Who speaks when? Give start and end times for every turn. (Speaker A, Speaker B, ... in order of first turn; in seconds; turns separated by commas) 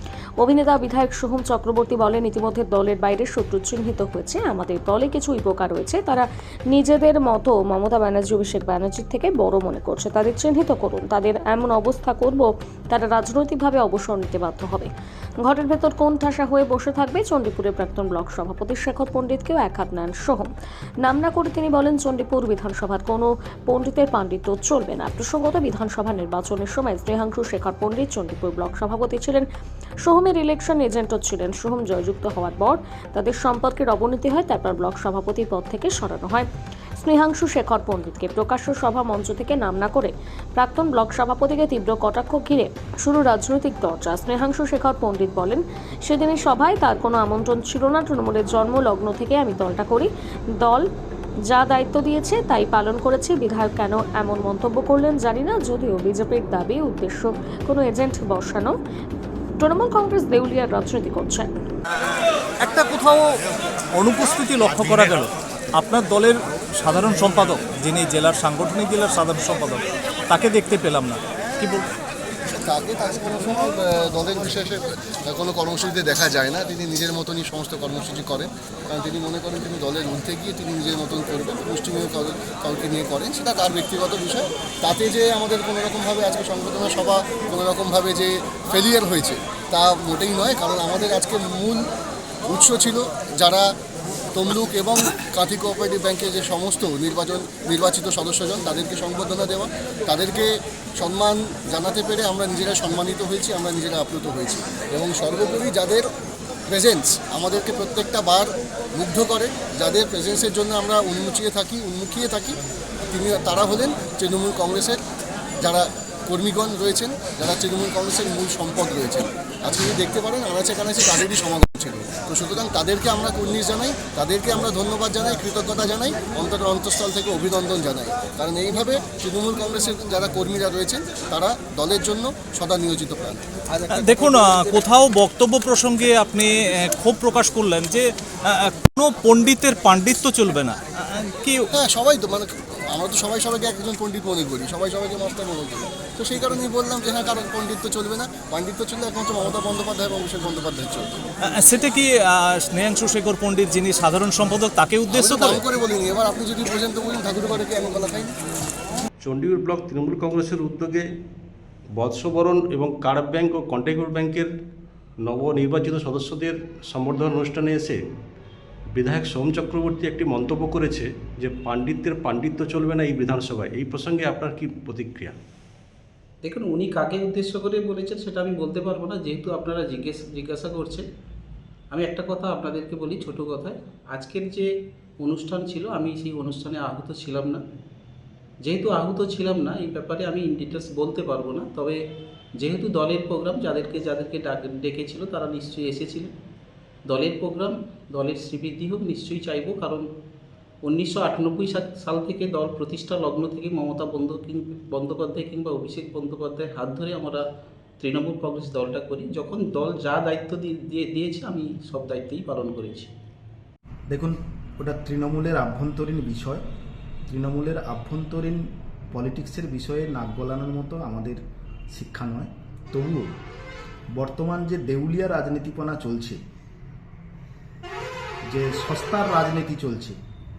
Speaker A: 0.4-14.9, Speaker A: 15.4-20.5, Speaker A: 21.0-29.4, Speaker A: 30.0-36.5, Speaker A: 37.0-50.9, Speaker A: 51.5-58.7, Speaker A: 59.6-61.5, Speaker B: 62.6-63.2, Speaker B: 63.9-71.8, Speaker C: 72.6-91.8, Speaker C: 92.5-93.7, Speaker C: 94.3-100.5, Speaker C: 101.0-106.1, Speaker C: 106.7-112.6, Speaker C: 113.1-115.0, Speaker C: 115.6-133.4, Speaker B: 133.9-141.6, Speaker C: 134.2-134.7, Speaker C: 141.7-151.2, Speaker B: 151.4-155.6, Speaker C: 155.1-158.4, Speaker D: 159.2-161.0, Speaker D: 162.0-164.5, Speaker D: 165.3-168.0, Speaker D: 169.0-175.3, Speaker E: 176.4-181.0, Speaker E: 181.9-184.7, Speaker E: 185.2-187.6, Speaker E: 188.6-192.0, Speaker E: 192.6-196.3, Speaker E: 197.1-200.0, Speaker E: 200.8-207.4, Speaker E: 208.0-213.1, Speaker F: 214.1-216.6, Speaker F: 217.3-221.4, Speaker F: 221.9-223.3, Speaker F: 224.2-226.4, Speaker F: 228.5-230.2